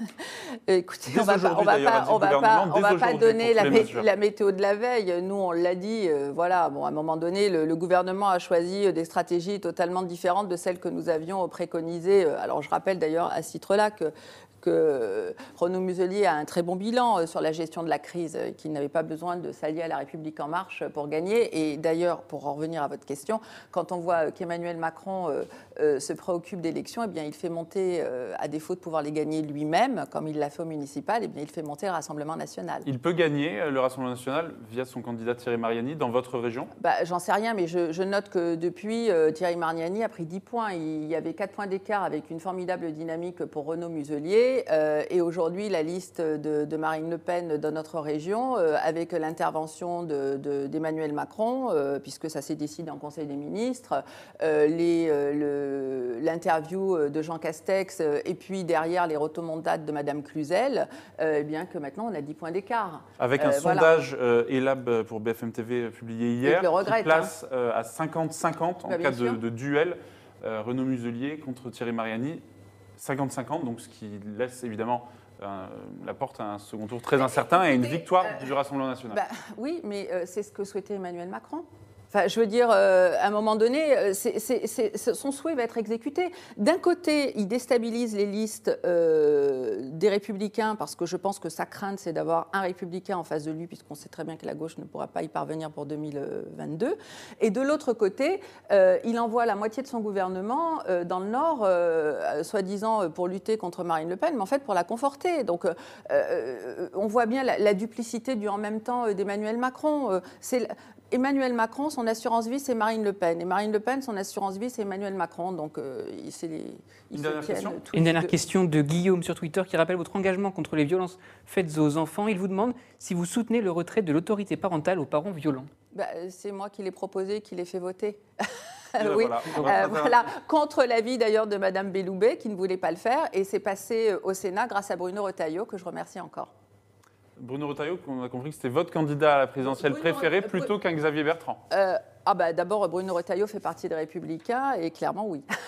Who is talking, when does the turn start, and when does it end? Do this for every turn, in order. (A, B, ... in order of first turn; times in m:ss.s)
0:00.2-0:32.8 A
0:01.0-0:04.1 B
0:32.8-0:36.7 B
0:36.8-1:04.1 A
1:03.2-1:12.4 B
1:06.4-1:07.3 A
1:08.9-1:09.4 A
1:13.0-1:19.2 B
1:17.3-1:18.5 A
1:19.1-1:58.4 A
1:57.1-1:57.8 B
1:57.9-2:05.7 C
2:05.9-2:16.5 A
2:09.0-2:10.2 B
2:17.4-2:21.6 B
2:19.6-2:20.7 A
2:21.7-2:25.4 A